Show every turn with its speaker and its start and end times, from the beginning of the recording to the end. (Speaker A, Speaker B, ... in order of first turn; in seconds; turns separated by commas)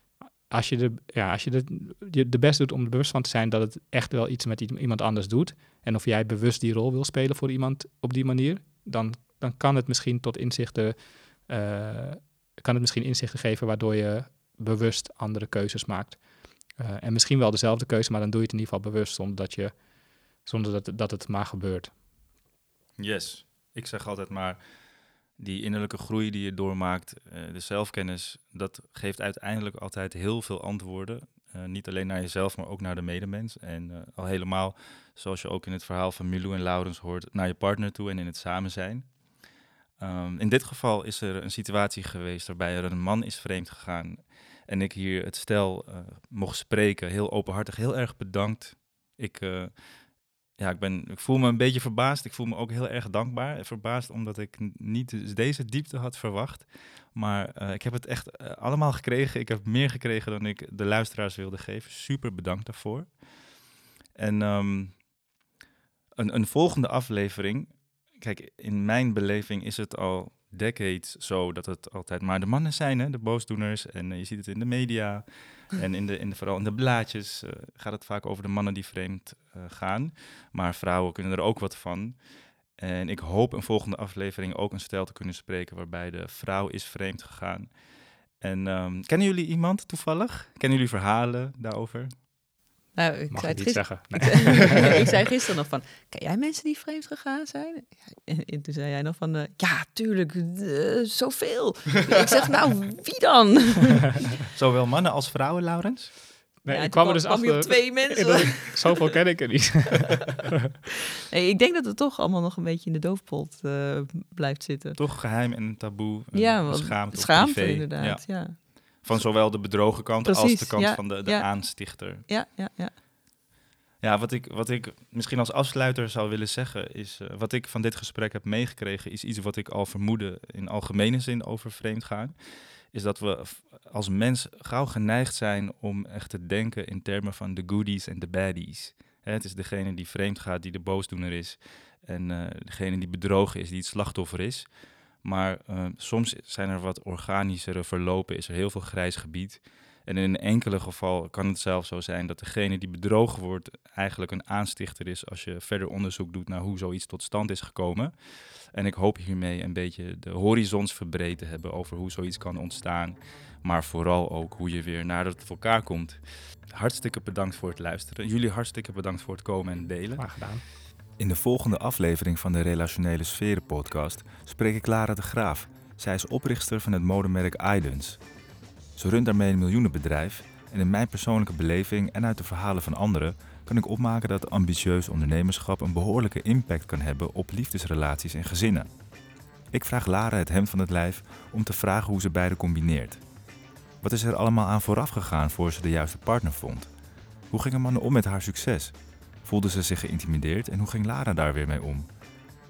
Speaker A: 0.5-16.2, Speaker A: 16.8-19.7, Speaker A: 20.4-21.9, Speaker B: 23.0-24.6, Speaker B: 25.4-39.1, Speaker B: 40.0-49.7, Speaker B: 50.5-63.1, Speaker B: 64.2-65.0, Speaker B: 66.2-82.2, Speaker B: 82.8-87.7, Speaker B: 88.4-92.1, Speaker C: 93.0-104.2, Speaker A: 93.3-95.1, Speaker B: 104.5-106.1, Speaker A: 106.6-110.5, Speaker C: 106.7-109.1, Speaker C: 111.3-115.0, Speaker B: 115.0-122.2, Speaker C: 116.3-119.3, Speaker C: 120.2-122.9, Speaker B: 124.0-144.7, Speaker B: 145.2-170.2, Speaker A: 170.2-170.6, Speaker B: 171.2-178.2, Speaker B: 179.0-188.9, Speaker B: 189.7-193.2, Speaker B: 194.0-196.9, Speaker B: 197.5-202.1